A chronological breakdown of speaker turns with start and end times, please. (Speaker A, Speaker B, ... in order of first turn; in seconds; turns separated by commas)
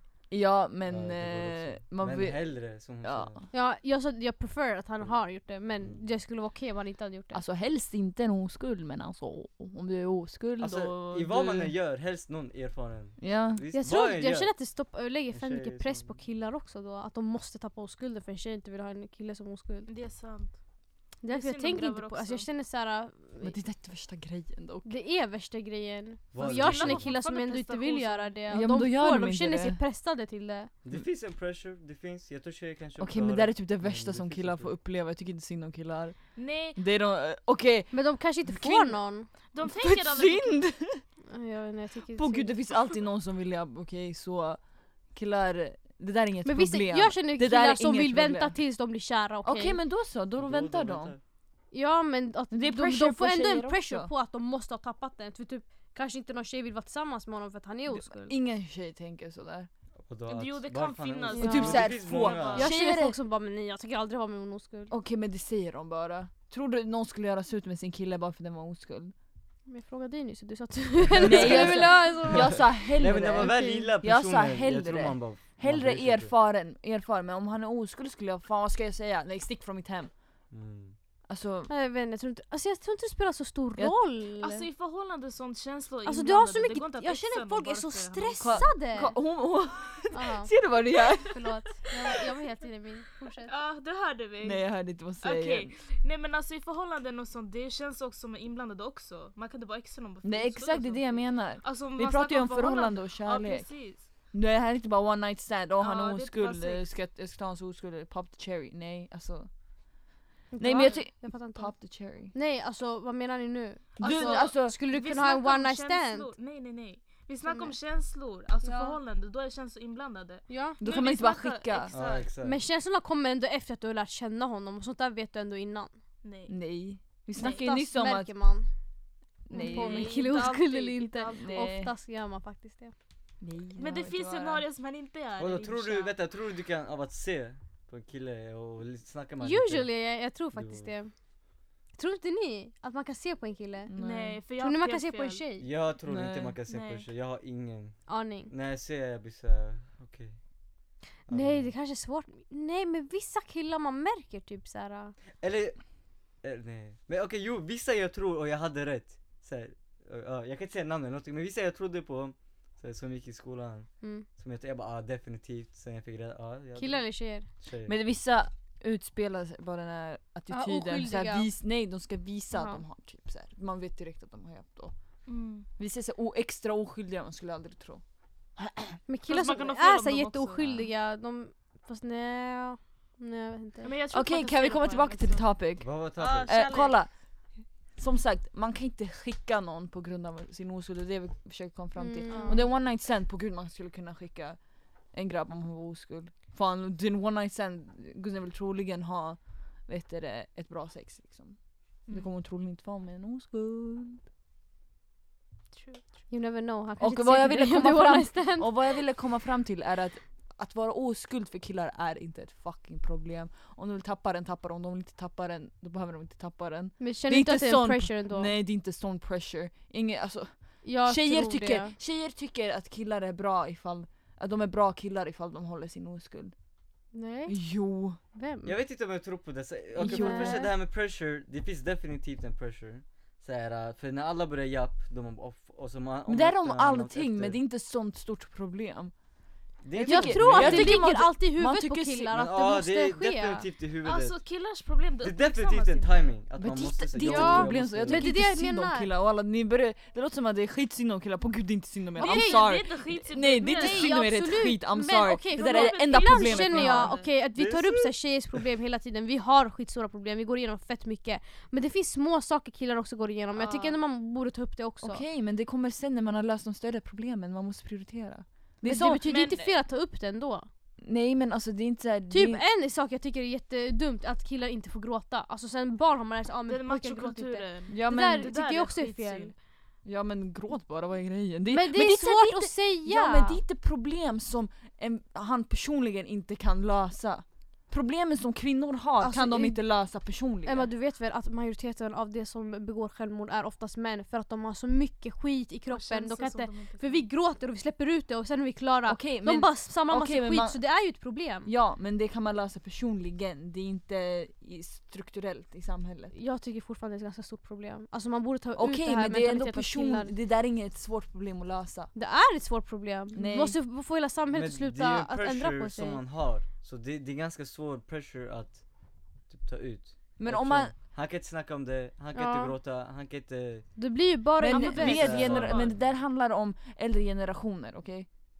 Speaker A: 0.3-2.5, Speaker B: 0.9-3.4, Speaker A: 3.0-3.4, Speaker C: 3.5-7.4, Speaker A: 7.3-11.7, Speaker B: 10.6-14.5, Speaker A: 13.2-13.6, Speaker C: 13.7-19.9, Speaker B: 15.3-16.1, Speaker D: 19.9-20.6, Speaker C: 21.2-23.5, Speaker D: 21.3-22.4, Speaker A: 23.4-24.9, Speaker C: 24.8-30.7, Speaker B: 26.3-27.2, Speaker D: 26.4-28.3, Speaker A: 28.5-29.8, Speaker B: 30.8-34.7, Speaker A: 33.0-36.2, Speaker D: 36.4-36.8, Speaker A: 36.7-37.9, Speaker C: 37.9-39.3, Speaker A: 38.5-39.0, Speaker D: 39.5-40.6, Speaker A: 39.6-41.0, Speaker C: 41.3-42.5, Speaker A: 42.1-44.6, Speaker A: 45.1-48.5, Speaker C: 46.4-49.8, Speaker A: 49.4-51.1, Speaker B: 50.4-51.2, Speaker C: 51.7-58.3, Speaker A: 52.5-54.1, Speaker A: 57.9-59.7, Speaker B: 60.1-62.7, Speaker D: 60.3-62.7, Speaker C: 61.3-61.8, Speaker A: 61.4-63.2, Speaker C: 62.5-64.9, Speaker A: 64.9-69.1, Speaker C: 69.7-72.7, Speaker A: 71.1-80.1, Speaker B: 71.2-76.3, Speaker C: 73.4-73.8, Speaker B: 80.5-80.9, Speaker A: 81.3-81.7, Speaker C: 81.7-84.6, Speaker D: 84.4-88.7, Speaker C: 86.0-89.1, Speaker A: 88.4-91.6, Speaker C: 90.1-90.5, Speaker C: 91.3-93.5, Speaker D: 93.5-104.0, Speaker A: 94.4-95.7, Speaker A: 100.2-103.7, Speaker A: 104.3-109.5, Speaker D: 105.8-106.8, Speaker C: 110.5-111.7, Speaker A: 110.6-112.3, Speaker C: 112.3-116.3, Speaker A: 114.0-114.8, Speaker D: 114.0-122.3, Speaker C: 117.5-117.7, Speaker C: 118.6-119.0, Speaker C: 120.5-120.8, Speaker A: 120.8-121.9, Speaker B: 121.9-122.6, Speaker C: 122.4-125.9, Speaker D: 126.2-126.5, Speaker A: 126.5-128.3, Speaker D: 127.4-127.7, Speaker C: 127.4-128.7, Speaker A: 129.5-130.2, Speaker C: 129.5-132.9, Speaker D: 129.5-131.7, Speaker A: 131.4-131.9, Speaker A: 133.4-134.6, Speaker D: 133.8-136.1, Speaker B: 135.4-139.9, Speaker C: 139.4-141.1, Speaker B: 140.5-140.9, Speaker C: 141.9-143.9, Speaker A: 143.9-144.4, Speaker D: 144.0-145.4, Speaker C: 144.6-145.7, Speaker B: 145.6-150.4, Speaker A: 146.1-146.6, Speaker D: 146.7-147.1, Speaker C: 148.1-148.5, Speaker B: 151.3-151.7, Speaker C: 151.3-155.1, Speaker B: 155.4-155.8, Speaker B: 156.4-167.1, Speaker C: 164.0-164.2, Speaker C: 166.8-167.5, Speaker B: 167.6-167.9, Speaker A: 167.8-174.9, Speaker C: 170.5-171.4, Speaker C: 172.5-172.8, Speaker D: 175.3-175.7, Speaker A: 175.8-178.0, Speaker A: 178.6-179.0, Speaker C: 179.1-183.9, Speaker D: 179.3-180.8, Speaker D: 183.8-185.4, Speaker A: 184.1-185.9, Speaker B: 185.8-186.5, Speaker D: 186.2-186.9, Speaker A: 186.4-187.1, Speaker A: 188.0-194.6, Speaker C: 192.0-192.6, Speaker D: 192.3-192.6, Speaker A: 195.1-201.6, Speaker A: 202.1-204.2, Speaker D: 205.7-206.0, Speaker C: 206.3-208.8, Speaker A: 207.0-226.5, Speaker C: 217.0-218.5, Speaker C: 220.8-221.9, Speaker C: 227.1-227.6, Speaker A: 227.5-228.2, Speaker C: 228.3-228.7, Speaker B: 228.6-237.6, Speaker A: 230.0-230.7, Speaker C: 230.0-230.7, Speaker A: 236.3-239.1, Speaker B: 239.8-241.1, Speaker A: 240.0-242.3, Speaker C: 240.0-243.7, Speaker B: 242.3-244.4, Speaker D: 244.0-246.3, Speaker B: 245.2-248.3, Speaker A: 246.6-257.1, Speaker C: 247.2-249.1, Speaker C: 252.2-252.7, Speaker D: 252.2-254.2, Speaker C: 253.6-265.2, Speaker D: 255.5-257.3, Speaker B: 257.5-258.1, Speaker D: 263.6-264.0, Speaker A: 265.0-269.2, Speaker C: 268.8-270.7, Speaker D: 269.2-269.7, Speaker A: 271.0-272.6, Speaker C: 272.3-279.5, Speaker D: 276.7-279.5, Speaker A: 277.9-278.5, Speaker A: 280.0-290.9, Speaker C: 281.7-283.6, Speaker C: 289.2-289.8, Speaker C: 290.6-301.7, Speaker D: 295.9-297.3, Speaker A: 299.1-300.8, Speaker A: 301.6-306.3, Speaker C: 306.3-310.3, Speaker A: 308.8-312.1, Speaker C: 312.1-316.2, Speaker A: 313.3-313.8, Speaker B: 314.5-318.8, Speaker B: 319.5-323.9, Speaker A: 320.4-320.9, Speaker C: 322.3-322.7, Speaker C: 323.9-325.4, Speaker A: 324.6-328.3, Speaker D: 324.7-325.9, Speaker B: 325.0-326.1